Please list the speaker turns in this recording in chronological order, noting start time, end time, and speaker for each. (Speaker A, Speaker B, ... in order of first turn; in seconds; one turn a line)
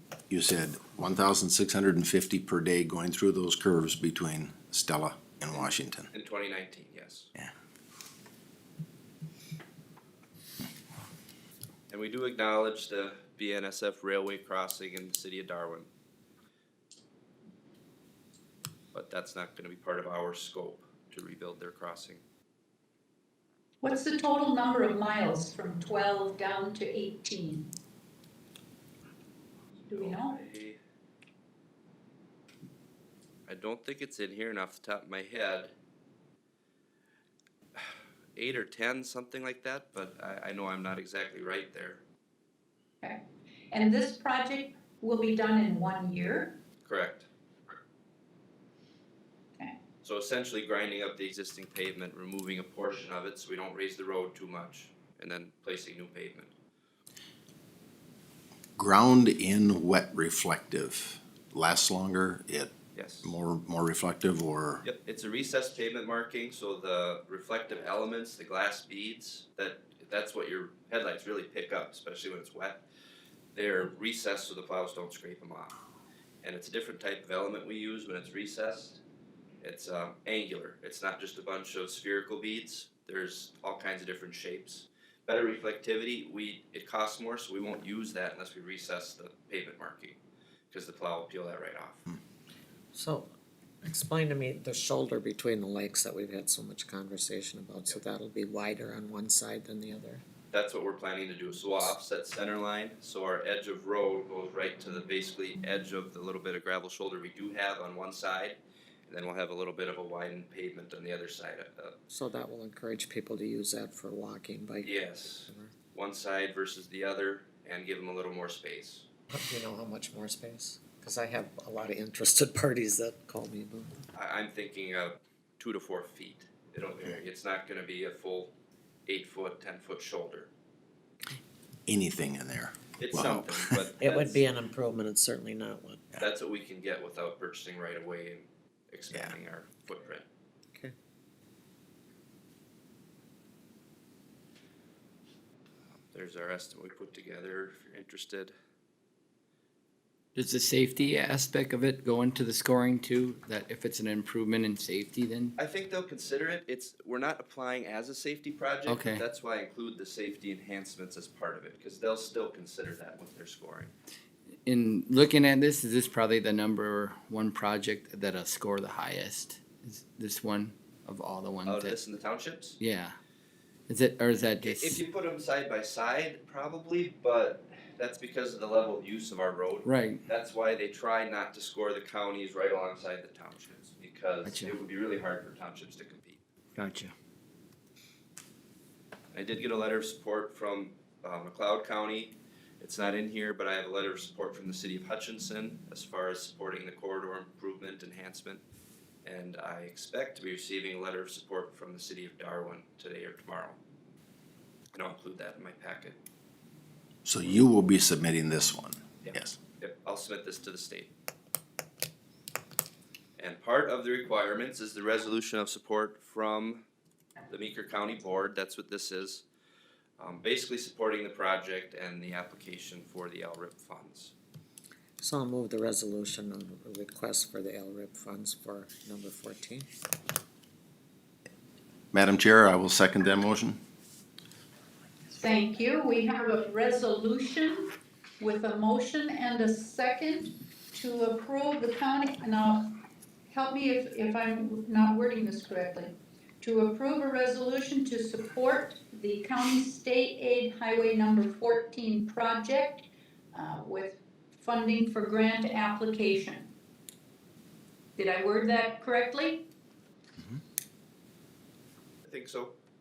Speaker A: 0.3-6.1
Speaker B: 5.5-7.3
Speaker B: 11.9-15.9
Speaker B: 18.9-22.2
Speaker C: 23.8-27.7
Speaker B: 29.9-30.8
Speaker C: 29.9-30.4
Speaker B: 33.5-35.7
Speaker B: 37.8-42.0
Speaker C: 43.0-46.5
Speaker B: 46.8-47.3
Speaker B: 50.0-56.5
Speaker A: 58.8-64.8
Speaker B: 62.9-63.4
Speaker B: 64.8-72.8
Speaker B: 73.5-75.8
Speaker B: 76.4-79.0
Speaker B: 79.6-90.2
Speaker B: 90.7-92.0
Speaker D: 92.9-93.3
Speaker D: 93.8-100.2
Speaker B: 100.5-112.0
Speaker D: 112.1-115.7
Speaker B: 114.8-119.0
Speaker D: 119.3-124.0
Speaker B: 124.1-128.5
Speaker B: 129.1-130.5
Speaker A: 131.9-133.8
Speaker B: 133.0-134.4
Speaker D: 134.0-136.0
Speaker B: 136.2-140.2
Speaker B: 146.1-148.5
Speaker E: 150.3-155.5
Speaker B: 155.6-163.9
Speaker E: 158.8-159.2
Speaker E: 164.7-172.0
Speaker B: 171.7-172.8
Speaker E: 172.8-173.2
Speaker E: 173.9-175.0
Speaker B: 174.6-186.4
Speaker E: 179.8-180.2
Speaker E: 184.4-184.7
Speaker E: 186.8-187.1
Speaker B: 189.3-198.6
Speaker B: 199.2-203.8
Speaker B: 204.9-206.2
Speaker A: 207.2-209.6
Speaker B: 209.2-211.1
Speaker B: 213.4-216.8
Speaker B: 217.5-219.4
Speaker B: 220.2-224.3
Speaker D: 225.2-229.9
Speaker A: 232.1-233.8
Speaker C: 235.3-243.0
Speaker C: 243.5-256.7
Speaker C: 258.1-259.7
Speaker B: 262.2-262.7